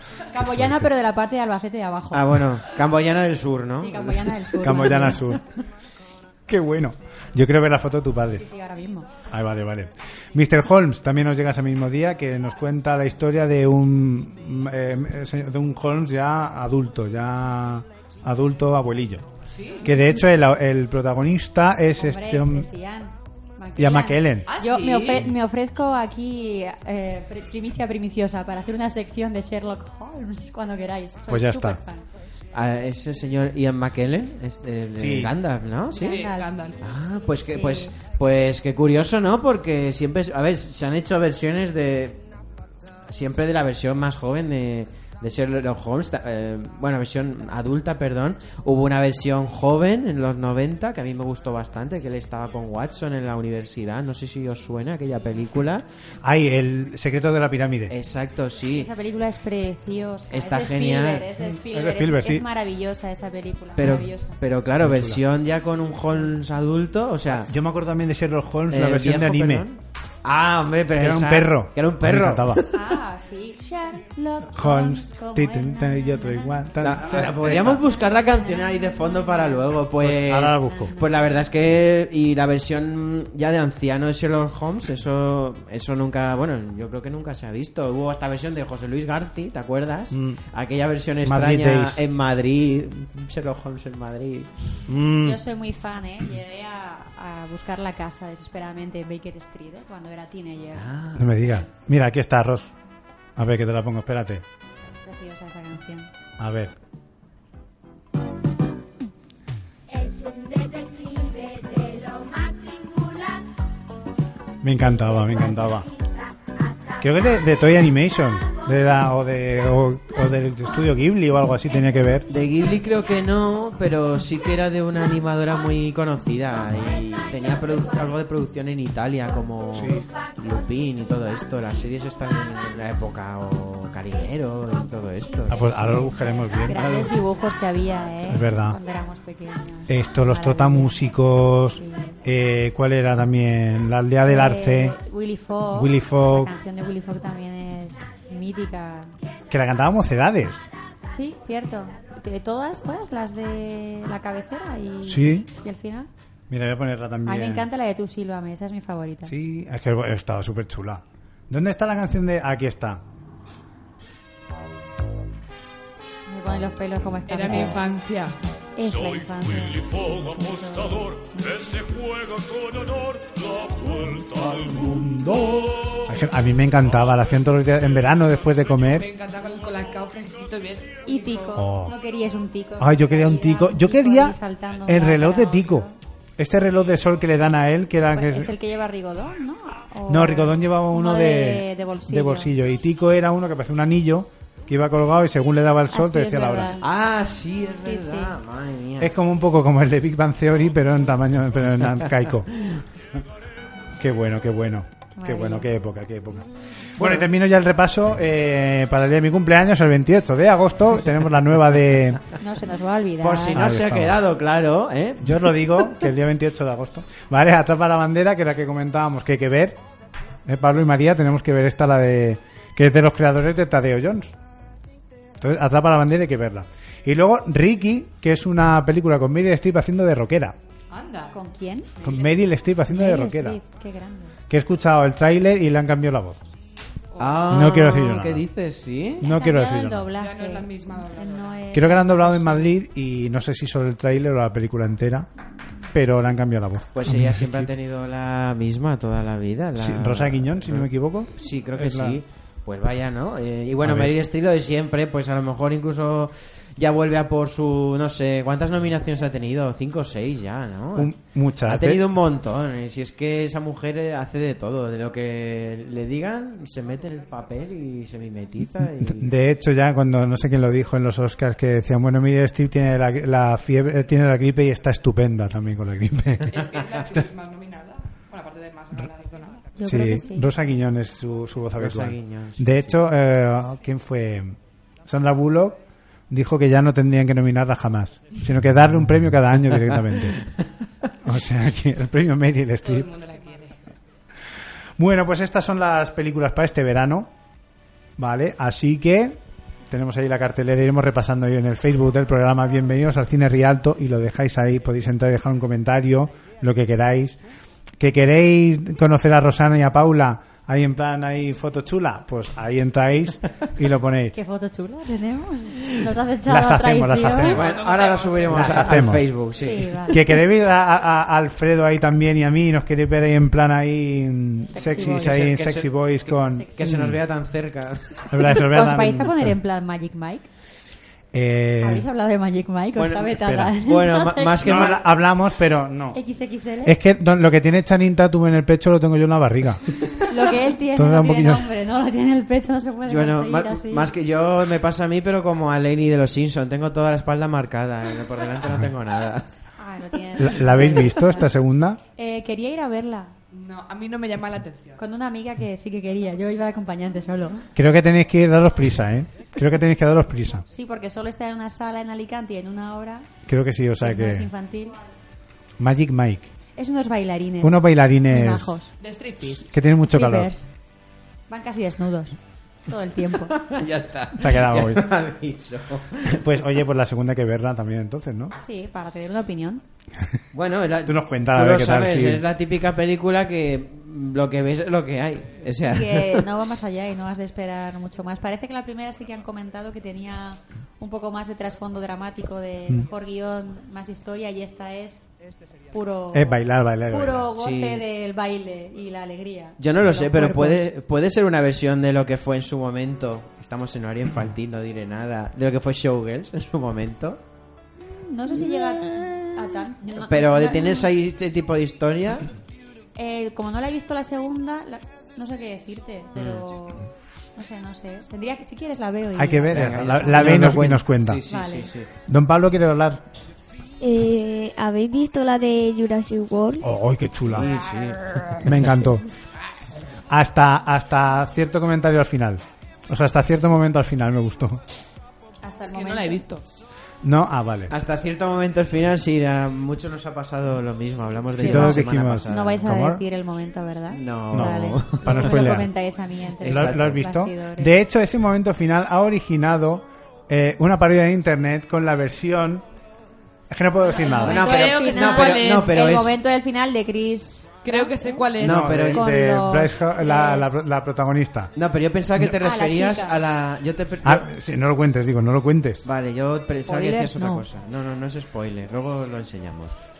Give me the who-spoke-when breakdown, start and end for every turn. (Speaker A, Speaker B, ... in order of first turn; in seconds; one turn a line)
Speaker A: 0.3-2.3
Speaker B: 0.4-0.9
Speaker C: 2.1-4.4
Speaker A: 3.8-5.3
Speaker B: 4.6-5.4
Speaker B: 6.5-8.4
Speaker A: 8.3-9.1
Speaker B: 9.3-19.2
Speaker D: 19.5-19.9
Speaker B: 19.8-22.7
Speaker A: 21.9-32.0
Speaker B: 23.8-24.5
Speaker D: 24.5-25.2
Speaker B: 31.3-31.8
Speaker C: 32.5-36.2
Speaker B: 35.0-35.3
Speaker A: 35.9-36.5
Speaker D: 35.9-36.8
Speaker C: 36.8-42.3
Speaker A: 37.4-38.0
Speaker C: 43.1-55.9
Speaker B: 56.2-57.9
Speaker C: 57.9-58.9
Speaker A: 58.7-64.4
Speaker C: 60.3-61.3
Speaker B: 61.4-62.5
Speaker C: 63.8-67.5
Speaker B: 64.8-65.2
Speaker B: 67.4-69.7
Speaker C: 68.7-72.8
Speaker B: 71.0-72.6
Speaker A: 72.7-76.7
Speaker B: 74.5-77.8
Speaker C: 76.8-94.7
Speaker A: 77.8-79.8
Speaker B: 80.0-80.9
Speaker A: 80.6-81.4
Speaker B: 90.1-90.4
Speaker B: 91.2-92.0
Speaker B: 94.9-95.4
Speaker A: 95.2-100.9
Speaker C: 100.7-101.5
Speaker B: 101.2-102.7
Speaker B: 103.4-104.4
Speaker A: 104.7-106.1
Speaker B: 106.4-106.7
Speaker E: 109.9-113.3
Speaker B: 114.6-115.9
Speaker B: 117.0-122.3
Speaker C: 122.3-136.1
Speaker B: 129.8-130.1
Speaker B: 135.5-137.1
Speaker A: 136.5-141.1
Speaker B: 138.3-138.8
Speaker B: 139.9-144.9
Speaker A: 141.7-142.2
Speaker A: 144.2-149.1
Speaker B: 145.7-146.5
Speaker B: 149.5-150.7
Speaker A: 151.1-156.1
Speaker B: 155.1-155.5
Speaker B: 156.5-157.7
Speaker A: 157.2-159.3
Speaker B: 159.3-163.0
Speaker A: 166.3-167.9
Speaker D: 167.3-168.4
Speaker A: 168.8-171.8
Speaker B: 173.9-179.1
Speaker D: 178.8-181.6
Speaker A: 181.1-185.9
Speaker B: 181.6-181.9
Speaker B: 182.8-184.4
Speaker B: 184.9-185.9
Speaker B: 186.4-188.5
Speaker A: 188.1-192.5
Speaker B: 190.1-196.8
Speaker A: 195.9-196.8
Speaker C: 196.8-199.1
Speaker A: 197.8-198.4
Speaker B: 199.0-202.6
Speaker B: 204.0-212.2
Speaker A: 205.1-205.7
Speaker C: 207.0-207.2
Speaker A: 212.4-213.6
Speaker C: 213.2-215.5
Speaker B: 213.6-214.2
Speaker B: 215.2-219.8
Speaker B: 220.4-224.3
Speaker B: 225.4-230.6
Speaker D: 230.9-231.3
Speaker A: 231.3-231.9
Speaker D: 232.0-232.3
Speaker B: 232.0-233.6
Speaker A: 232.9-234.4
Speaker B: 234.5-236.4
Speaker D: 237.1-237.6
Speaker C: 237.2-239.2
Speaker B: 237.5-238.4
Speaker B: 239.2-240.1
Speaker A: 239.2-242.8
Speaker D: 240.2-241.6
Speaker B: 241.7-245.3
Speaker B: 245.9-247.7
Speaker C: 246.9-269.3
Speaker B: 249.8-252.2
Speaker B: 253.8-254.1
Speaker B: 260.9-262.0
Speaker B: 269.0-276.6
Speaker D: 276.5-279.7
Speaker A: 279.8-280.5
Speaker B: 279.8-285.8
Speaker C: 281.8-283.0
Speaker B: 286.3-290.6
Speaker B: 291.2-293.1
Speaker D: 292.8-293.8
Speaker B: 295.0-297.3
Speaker B: 298.2-299.4
Speaker B: 299.9-307.4
Speaker B: 308.0-314.3
Speaker A: 314.3-317.6
Speaker B: 316.4-317.6
Speaker D: 317.4-318.8
Speaker C: 317.4-320.1
Speaker B: 318.5-319.2
Speaker A: 319.6-320.3
Speaker B: 320.1-327.2
Speaker A: 324.7-325.3
Speaker C: 324.8-328.5
Speaker A: 326.4-326.9
Speaker B: 328.3-329.6
Speaker A: 328.5-330.5
Speaker B: 331.3-332.1
Speaker A: 331.8-334.9
Speaker C: 332.9-335.0
Speaker B: 333.4-333.7
Speaker B: 334.6-336.2
Speaker A: 336.1-336.9
Speaker B: 336.8-340.2
Speaker A: 340.2-344.1
Speaker B: 340.9-341.7
Speaker C: 343.1-349.5
Speaker A: 349.8-351.5
Speaker B: 350.4-352.0
Speaker A: 352.1-353.3
Speaker D: 353.5-355.0
Speaker A: 355.0-357.7
Speaker B: 357.8-360.6
Speaker A: 360.7-363.3
Speaker B: 363.4-364.5
Speaker A: 364.0-365.0
Speaker B: 365.8-366.5
Speaker A: 366.8-368.9
Speaker B: 367.6-368.7
Speaker D: 369.0-369.7
Speaker B: 369.6-370.5
Speaker A: 370.1-370.6
Speaker A: 371.5-373.6
Speaker C: 373.6-376.4
Speaker B: 374.4-375.0
Speaker B: 376.3-378.5
Speaker A: 378.6-379.8
Speaker C: 380.5-386.5
Speaker B: 381.1-382.4
Speaker A: 385.9-395.2
Speaker A: 395.9-400.8
Speaker B: 396.3-397.5
Speaker C: 397.5-398.1
Speaker C: 399.8-407.4
Speaker A: 408.2-411.1
Speaker C: 410.1-412.5
Speaker A: 413.1-419.9
Speaker B: 419.4-421.4
Speaker C: 419.7-422.1
Speaker A: 421.5-421.9
Speaker B: 422.3-423.2
Speaker F: 424.0-426.9
Speaker B: 426.8-427.7
Speaker C: 427.5-428.4
Speaker B: 428.6-429.3
Speaker B: 430.3-434.8
Speaker A: 435.6-436.4
Speaker D: 435.9-436.6
Speaker B: 437.2-437.9
Speaker C: 437.9-442.8
Speaker B: 441.6-443.2
Speaker A: 441.6-447.9
Speaker C: 444.1-445.7
Speaker B: 444.5-445.9
Speaker C: 446.6-447.2
Speaker B: 446.6-452.8
Speaker B: 453.7-454.7
Speaker A: 454.1-460.7
Speaker C: 454.4-456.4
Speaker D: 454.5-455.9
Speaker D: 457.8-458.9
Speaker C: 458.6-459.3
Speaker B: 458.6-461.7
Speaker C: 461.7-464.5
Speaker A: 462.6-463.4
Speaker B: 464.2-466.0
Speaker C: 466.1-469.9
Speaker A: 466.9-467.6